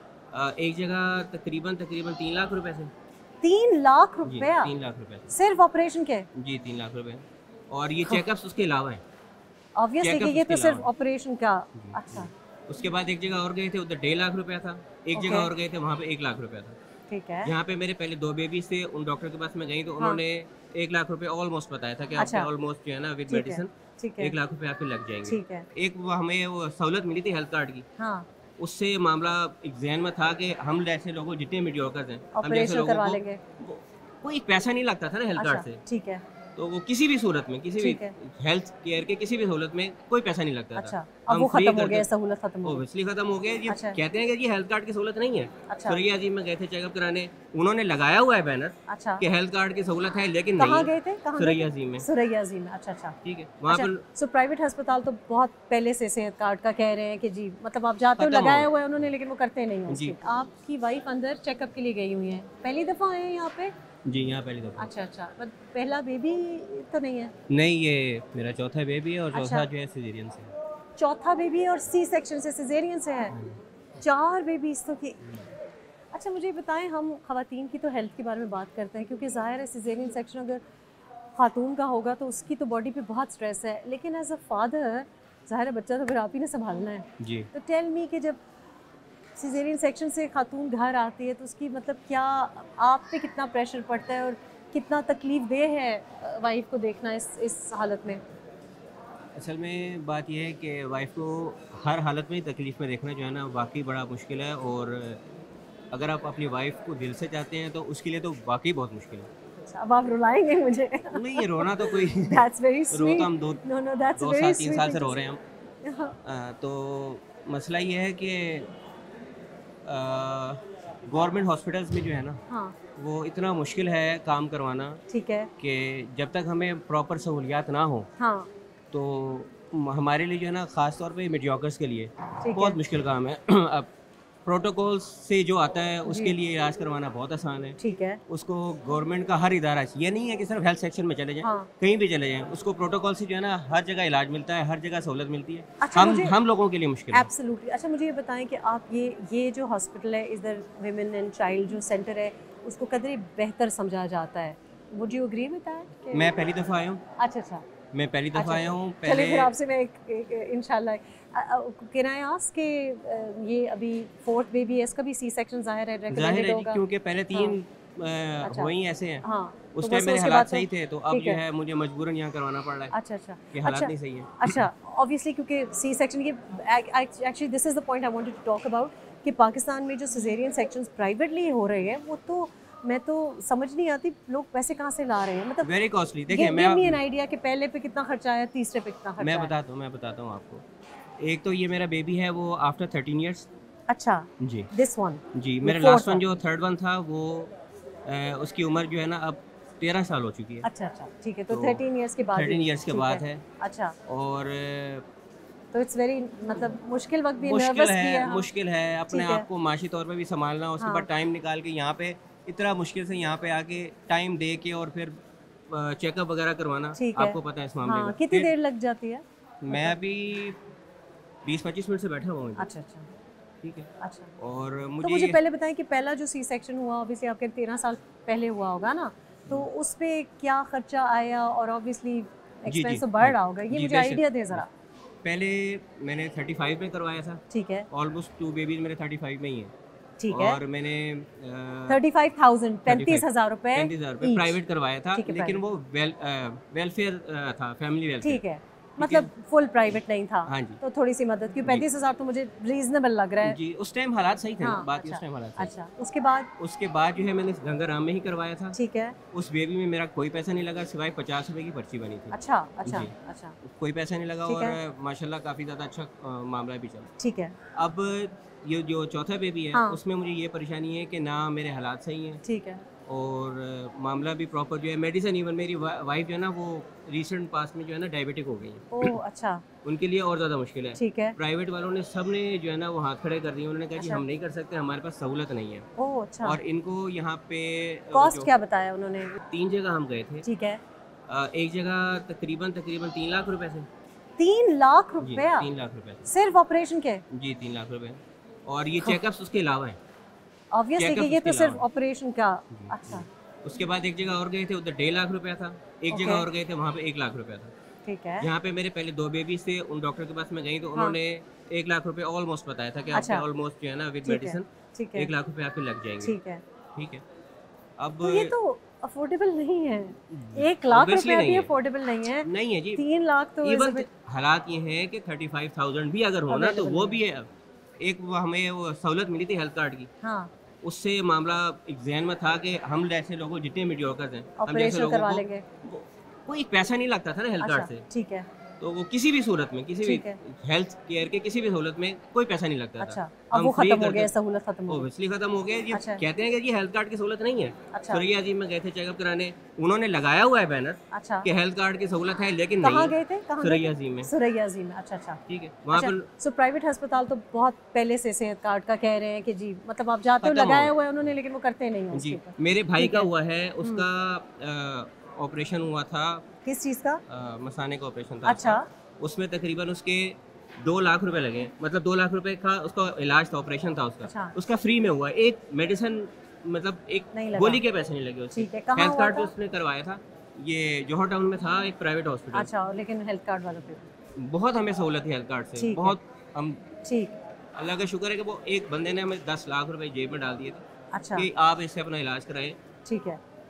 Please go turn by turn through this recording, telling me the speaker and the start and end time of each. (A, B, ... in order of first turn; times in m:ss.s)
0:00.3-0:02.9 A
0:03.4-0:04.7 B
0:04.2-0:05.3 A
0:05.3-0:06.3 B
0:06.3-0:09.0 A
0:09.8-0:12.3 B
0:10.0-0:10.9 A
0:11.7-0:16.8 A
0:15.1-0:15.5 B
0:17.1-0:17.5 B
0:17.4-0:27.8 A
0:22.2-0:22.5 B
0:23.3-0:24.3 B
0:25.2-0:25.7 B
0:28.0-0:28.3 B
0:28.6-0:35.8 A
0:32.3-0:33.4 B
0:35.4-0:36.2 B
0:36.6-0:42.1 A
0:37.8-0:38.1 B
0:40.7-0:42.8 B
0:42.6-0:52.0 A
0:43.7-0:44.0 B
0:45.7-0:46.0 B
0:48.9-0:49.2 B
0:50.6-0:53.2 B
0:53.2-0:54.0 A
0:53.7-1:03.7 B
0:58.2-0:58.7 A
0:59.9-1:00.1 A
1:04.0-1:04.9 A
1:04.8-1:07.3 B
1:07.5-1:10.5 A
1:09.3-1:09.7 B
1:11.0-1:13.4 B
1:14.0-1:15.3 B
1:16.1-1:20.6 B
1:21.4-1:28.4 B
1:27.2-1:27.5 A
1:29.4-1:38.2 B
1:39.4-1:45.2 A
1:45.9-1:49.3 A
1:49.6-1:55.2 B
1:51.1-1:53.6 A
1:54.2-1:55.4 A
1:55.8-1:56.2 B
1:56.2-1:58.7 A
1:59.8-2:02.4 A
2:02.5-2:02.8 B
2:03.0-2:05.0 A
2:05.1-2:05.5 B
2:05.6-2:08.1 A
2:08.2-2:08.5 B
2:08.9-2:13.9 A
2:12.4-2:12.8 B
2:14.4-2:27.3 A
2:16.1-2:16.3 B
2:17.8-2:18.2 B
2:21.4-2:21.7 B
2:25.8-2:26.4 B
2:27.1-2:36.3 B
2:36.1-2:37.0 A
2:37.2-2:37.6 B
2:37.9-2:39.5 A
2:38.3-2:46.8 B
2:46.1-2:52.9 A
2:48.4-2:51.4 B
2:52.9-3:05.7 B
2:53.5-2:54.6 A
3:05.6-3:07.0 A
3:06.3-3:09.5 B
3:09.2-3:10.6 A
3:11.2-3:13.5 A
3:13.9-3:16.2 B
3:14.4-3:14.7 A
3:15.3-3:17.5 A
3:18.0-3:20.7 A
3:20.6-3:24.0 B
3:21.5-3:21.8 A
3:22.3-3:23.4 A
3:24.0-3:25.0 A
3:25.7-3:28.5 B
3:27.4-3:35.2 A
3:29.1-3:29.5 B
3:30.8-3:31.1 B
3:35.7-3:38.5 A
3:37.0-3:40.0 B
3:39.6-3:40.6 A
3:41.4-3:42.7 A
3:42.6-3:43.1 B
3:43.6-3:45.4 A
3:44.0-3:44.3 B
3:45.0-3:54.7 B
3:52.7-3:54.6 A
3:55.2-3:59.7 A
3:57.5-3:57.9 B
4:00.2-4:00.6 B
4:00.3-4:02.0 A
4:01.9-4:04.6 B
4:02.9-4:08.4 A
4:05.1-4:05.6 B
4:08.2-4:13.6 B
4:09.0-4:09.3 A
4:09.9-4:10.8 A
4:13.4-4:15.7 A
4:14.6-4:16.5 B
4:16.6-4:18.8 A
4:18.7-4:19.2 B
4:19.3-4:27.1 A
4:22.3-4:23.6 B
4:24.5-4:24.8 B
4:27.2-4:27.5 B
4:27.7-4:32.4 A
4:29.7-4:30.0 B
4:32.4-4:32.8 B
4:33.1-4:39.1 A
4:38.9-4:39.6 B
4:39.8-4:45.9 A
4:41.0-4:41.4 B
4:44.0-4:44.2 B
4:46.0-4:46.6 B
4:46.4-4:48.5 A
4:48.1-4:49.4 B
4:49.4-4:50.4 A
4:50.4-4:50.8 B
4:51.3-4:53.9 A
4:54.4-4:55.7 B
4:55.2-4:56.3 A
4:56.3-4:57.2 B
4:57.3-5:00.0 A
5:00.7-5:03.3 B
5:01.0-5:01.8 A
5:02.7-5:07.7 A
5:06.1-5:06.4 B
5:08.0-5:08.5 B
5:08.4-5:16.3 A
5:13.1-5:13.4 B
5:14.2-5:15.3 B
5:16.2-5:16.6 B
5:16.9-5:17.2 A
5:18.0-5:18.5 A
5:18.2-5:24.1 B
5:20.3-5:21.7 A
5:22.4-5:23.0 A
5:23.6-5:27.5 A
5:26.5-5:27.2 B
5:28.0-5:30.1 A
5:30.2-5:30.5 B
5:30.8-5:38.0 A
5:34.6-5:35.6 B
5:37.6-5:38.4 B
5:38.8-5:44.3 A
5:40.0-5:40.4 B
5:43.0-5:45.1 B
5:44.9-5:54.3 A
5:45.9-5:46.2 B
5:47.9-5:48.2 B
5:51.1-5:51.5 B
5:52.8-5:55.4 B
5:55.5-5:56.3 A
5:55.9-6:03.3 B
6:00.4-6:00.9 A
6:02.1-6:06.4 A
6:06.6-6:07.2 B
6:07.3-6:22.7 A
6:08.4-6:08.8 B
6:14.2-6:14.5 B
6:17.3-6:17.8 B
6:18.5-6:19.5 B
6:22.5-6:24.0 B
6:24.4-6:26.8 A
6:25.8-6:26.2 B
6:27.0-6:27.4 B
6:27.8-6:30.8 A
6:31.1-6:31.5 B
6:31.4-6:32.8 A
6:33.0-6:33.4 B